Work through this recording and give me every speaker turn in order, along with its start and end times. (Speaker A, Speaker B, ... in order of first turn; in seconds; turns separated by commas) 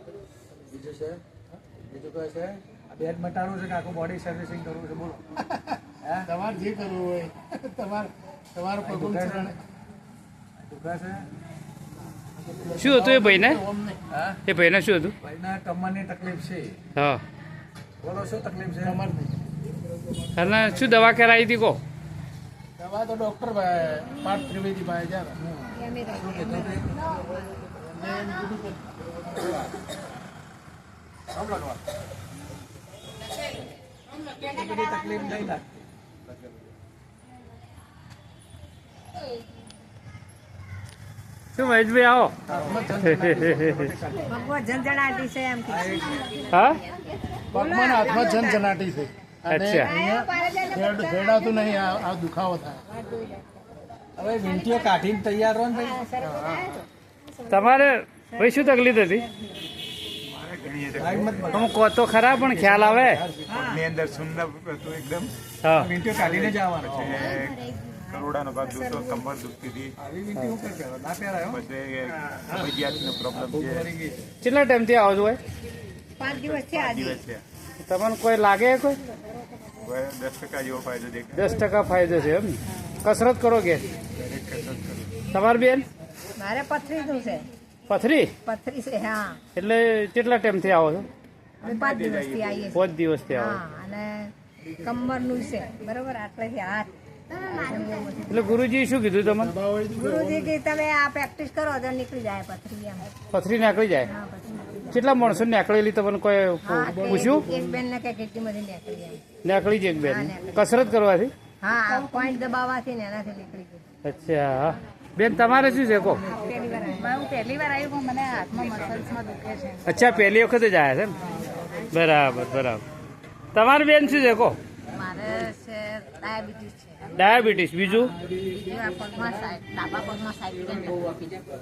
Speaker A: 0.7-1.2, Speaker A: 1.9-5.2, Speaker B: 5.5-9.6, Speaker A: 6.0-6.3, Speaker A: 8.8-9.5, Speaker A: 10.6-11.2, Speaker B: 12.4-14.0, Speaker C: 12.8-13.6, Speaker A: 14.1-14.4, Speaker C: 14.4-15.1, Speaker A: 15.2-16.8, Speaker C: 16.9-17.2, Speaker A: 18.0-19.0, Speaker B: 18.8-19.4, Speaker C: 20.3-21.8, Speaker B: 22.8-25.4, Speaker A: 25.4-26.9, Speaker D: 25.8-26.8, Speaker B: 27.7-29.0, Speaker A: 34.4-35.8, Speaker C: 41.5-42.4, Speaker A: 42.5-44.4, Speaker B: 42.6-42.9, Speaker C: 43.1-43.8, Speaker D: 44.3-46.5, Speaker A: 45.7-46.2, Speaker C: 46.5-46.8, Speaker D: 47.4-48.7, Speaker B: 47.5-52.8, Speaker C: 49.5-49.9, Speaker D: 49.8-51.9, Speaker D: 52.9-53.5, Speaker A: 54.2-56.5, Speaker D: 55.9-56.8, Speaker C: 57.5-59.2, Speaker E: 60.3-61.5, Speaker A: 60.9-61.8, Speaker C: 61.5-63.2, Speaker A: 62.3-63.8, Speaker E: 63.5-65.3, Speaker C: 65.6-66.0, Speaker A: 65.8-67.2, Speaker E: 66.0-67.6, Speaker D: 67.2-69.2, Speaker E: 68.1-69.9, Speaker A: 70.0-71.6, Speaker E: 71.5-73.9, Speaker A: 73.3-74.3, Speaker C: 74.4-75.4, Speaker D: 76.2-77.2, Speaker E: 76.4-77.4, Speaker C: 77.8-79.0, Speaker E: 79.8-81.5, Speaker C: 81.3-83.9, Speaker E: 84.2-85.1, Speaker C: 85.3-85.9, Speaker D: 86.3-87.5, Speaker C: 87.9-88.3, Speaker D: 88.4-89.4, Speaker C: 89.5-91.1, Speaker D: 91.6-98.7, Speaker C: 92.7-93.6, Speaker C: 98.3-99.5, Speaker B: 99.3-100.5, Speaker D: 100.0-103.1, Speaker C: 103.3-104.1, Speaker D: 104.0-104.9, Speaker C: 104.9-107.4, Speaker D: 106.6-109.2, Speaker B: 106.8-107.8, Speaker C: 109.4-111.3, Speaker D: 110.0-110.5, Speaker D: 111.6-113.8, Speaker C: 114.0-116.2, Speaker D: 116.2-119.8, Speaker C: 119.8-121.2, Speaker C: 121.9-122.8, Speaker C: 123.5-124.6, Speaker D: 124.9-127.0, Speaker C: 127.1-128.1, Speaker D: 128.4-131.4